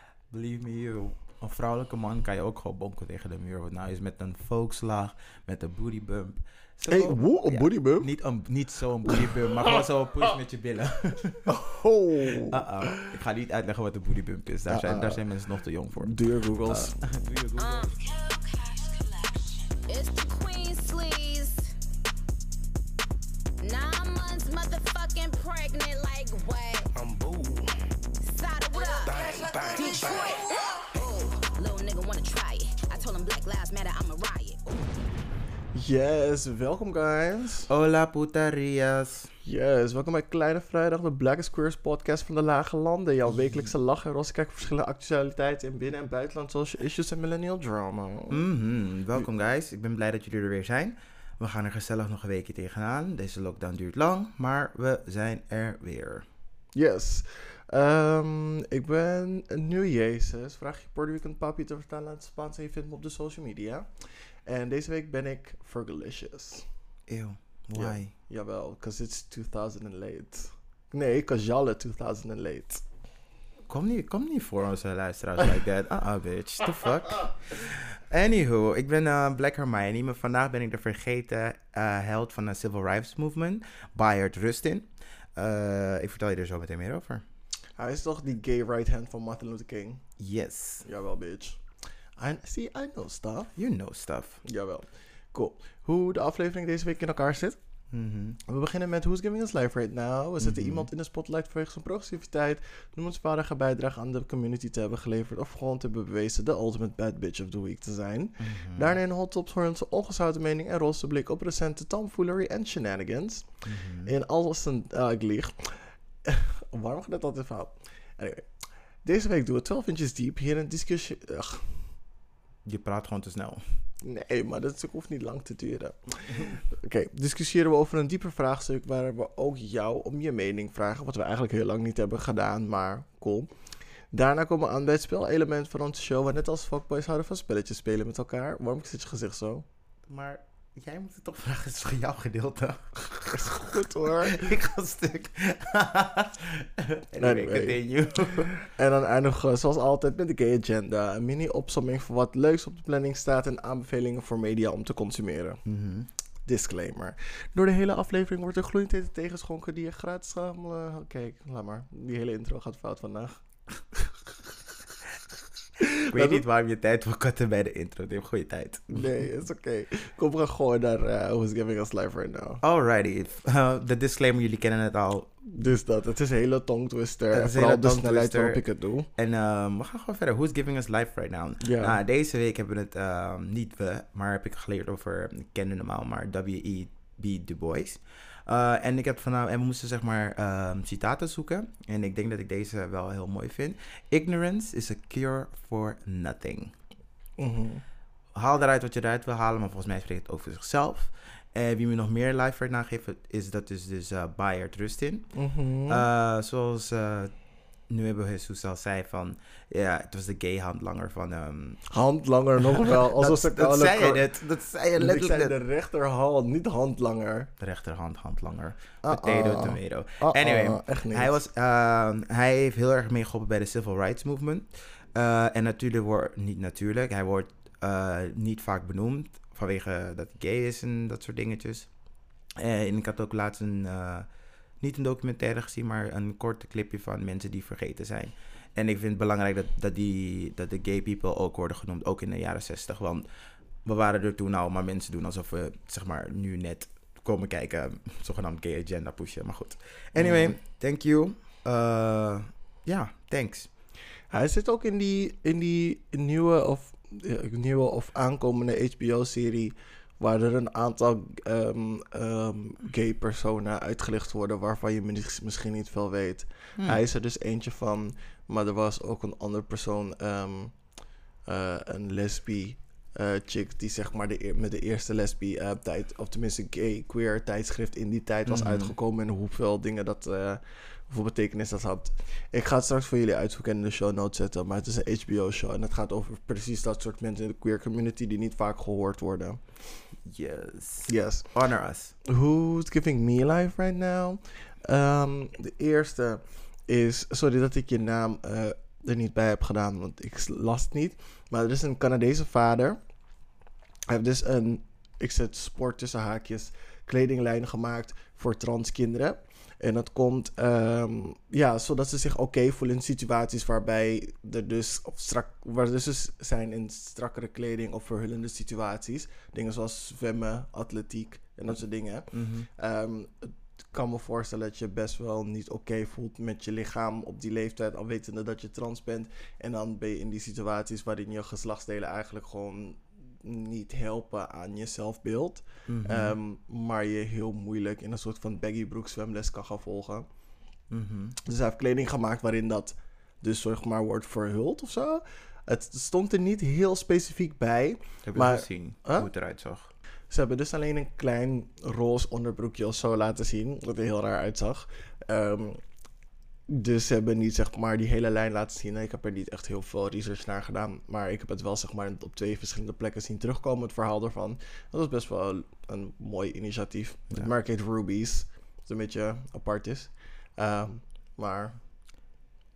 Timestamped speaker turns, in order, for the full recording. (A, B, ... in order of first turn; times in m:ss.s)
0:00.3-0:11.5 A
0:06.9-0:08.1 B
0:11.4-0:13.2 B
0:12.4-0:18.0 A
0:14.7-0:15.2 B
0:16.0-0:17.0 B
0:17.6-0:21.7 C
0:23.6-0:27.1 C
0:27.1-0:27.6 B
0:28.2-0:34.6 C
0:35.7-0:37.7 B
0:37.7-0:39.3 A
0:39.4-0:48.4 B
0:48.3-0:56.2 A
0:56.8-1:06.7 B
1:07.1-1:08.1 A
1:07.8-1:12.8 B
1:13.7-1:27.2 A
1:27.8-1:30.0 B
1:30.2-1:30.9 A
1:30.8-1:31.6 B
1:32.2-1:33.5 B
1:33.6-1:34.4 A
1:34.4-1:37.6 B
1:37.9-1:38.4 A
1:38.5-1:53.5 B
1:40.4-1:40.9 A
1:48.4-1:49.0 A
1:53.6-1:54.1 A
1:54.0-1:58.5 B
1:59.0-2:01.9 B
2:02.6-2:03.6 A
2:04.0-2:13.5 B
2:14.1-2:19.6 B
2:20.1-2:28.5 A
2:23.3-2:24.4 B
2:27.2-2:35.6 B
2:35.6-2:36.1 A
2:36.5-2:44.1 B
2:45.8-2:46.4 B
2:46.1-2:49.1 A
2:48.9-2:52.6 B
2:52.6-2:55.3 A
2:55.4-2:59.1 B
2:57.3-2:58.6 A
2:59.2-3:16.7 A
3:01.6-3:02.0 B
3:17.4-3:17.8 B
3:18.3-3:25.3 A
3:25.4-3:26.0 B
3:25.9-3:27.3 A
3:27.9-3:31.8 A
3:31.9-3:34.3 B
3:32.8-3:35.6 A
3:35.0-3:37.5 B
3:37.6-3:51.9 A
3:39.0-3:41.4 B
3:52.6-3:54.3 A
3:54.8-4:03.2 A
4:03.8-4:13.7 A
4:10.2-4:10.6 B
4:14.3-4:30.8 B
4:31.5-4:49.6 B
4:38.5-4:38.9 A
4:50.2-4:52.2 A
4:51.1-4:51.5 B
4:52.2-5:03.0 B
5:04.1-5:40.3 B
5:22.3-5:22.7 A
5:35.9-5:36.4 A
5:40.9-5:41.4 A
5:41.4-5:49.3 B
5:48.3-5:49.9 A
5:50.3-5:55.8 B
5:56.7-6:11.8 B